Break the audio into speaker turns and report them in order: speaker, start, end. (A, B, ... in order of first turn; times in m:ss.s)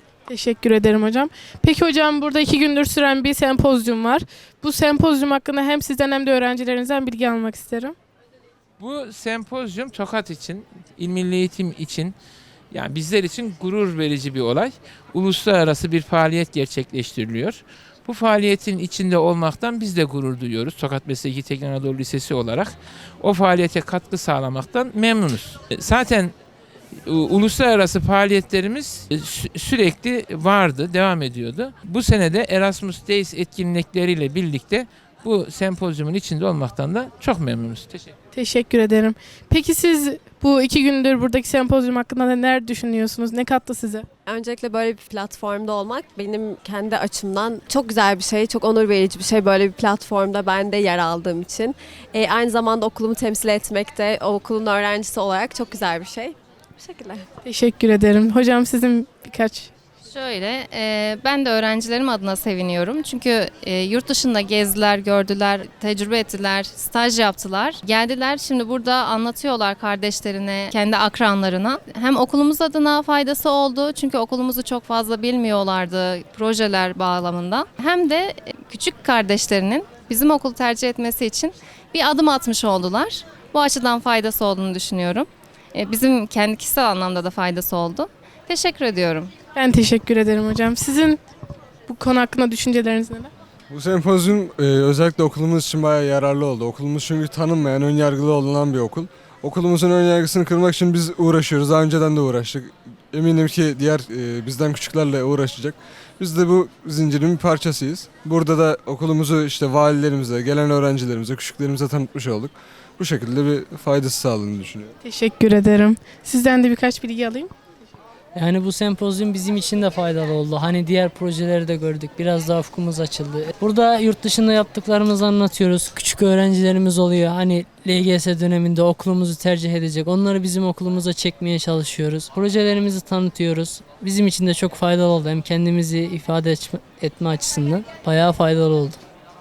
0:00.3-0:07.9 A
0:08.8-0:12.1 B
0:12.7-0:26.3 B
0:27.0-0:38.1 B
0:38.3-0:44.0 A
0:44.2-0:57.2 C
0:57.4-0:59.7 A
1:00.0-1:29.3 D
1:29.5-1:31.2 A
1:31.9-1:33.3 A
1:33.7-1:54.9 E
1:55.0-1:57.5 A
1:58.3-2:19.0 F